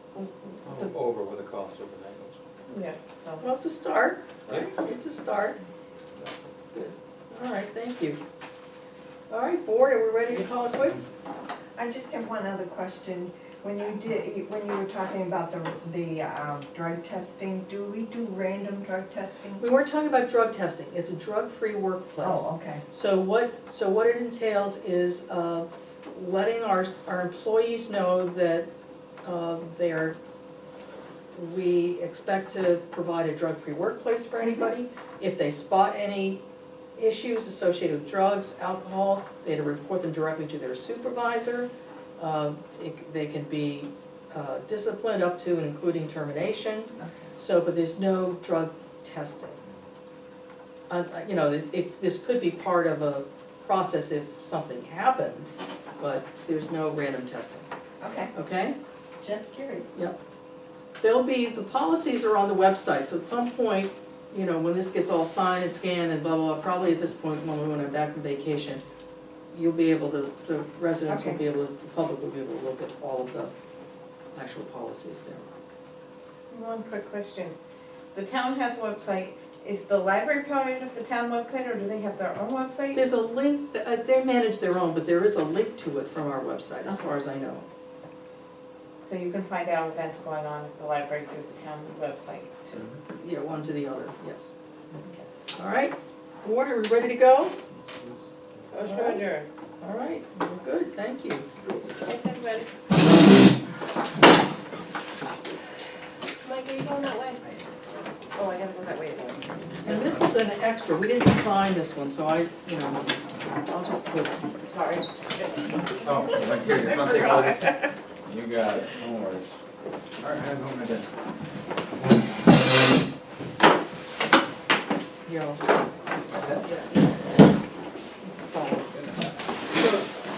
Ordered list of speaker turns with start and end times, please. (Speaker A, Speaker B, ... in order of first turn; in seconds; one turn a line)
Speaker A: 0.6-2.4
Speaker B: 2.7-3.5
Speaker C: 3.4-5.6
Speaker A: 4.5-4.7
Speaker C: 6.7-8.2
Speaker C: 9.3-11.1
Speaker D: 11.8-19.6
Speaker C: 19.6-28.7
Speaker D: 22.2-22.8
Speaker C: 29.2-30.2
Speaker C: 31.3-36.4
Speaker C: 37.0-49.6
Speaker C: 50.9-57.7
Speaker D: 58.0-58.3
Speaker C: 58.3-58.8
Speaker D: 59.2-60.0
Speaker C: 61.0-68.8
Speaker C: 69.5-73.5
Speaker D: 71.1-71.4
Speaker C: 74.3-75.5
Speaker B: 76.5-77.6
Speaker B: 78.1-83.0
Speaker C: 82.9-87.7
Speaker B: 89.0-92.9
Speaker C: 93.2-94.5
Speaker C: 95.5-97.5
Speaker A: 97.9-98.2
Speaker E: 98.7-99.5
Speaker C: 98.9-99.2
Speaker B: 99.0-99.3
Speaker C: 99.8-101.5
Speaker E: 102.0-102.7
Speaker E: 106.4-109.7
Speaker C: 109.8-114.4
Speaker B: 114.7-115.8
Speaker A: 116.0-119.6
Speaker B: 116.9-117.7
Speaker A: 120.2-121.1
Speaker C: 125.3-125.6
Speaker A: 126.3-126.7
Speaker C: 128.4-128.9
Speaker A: 128.9-129.3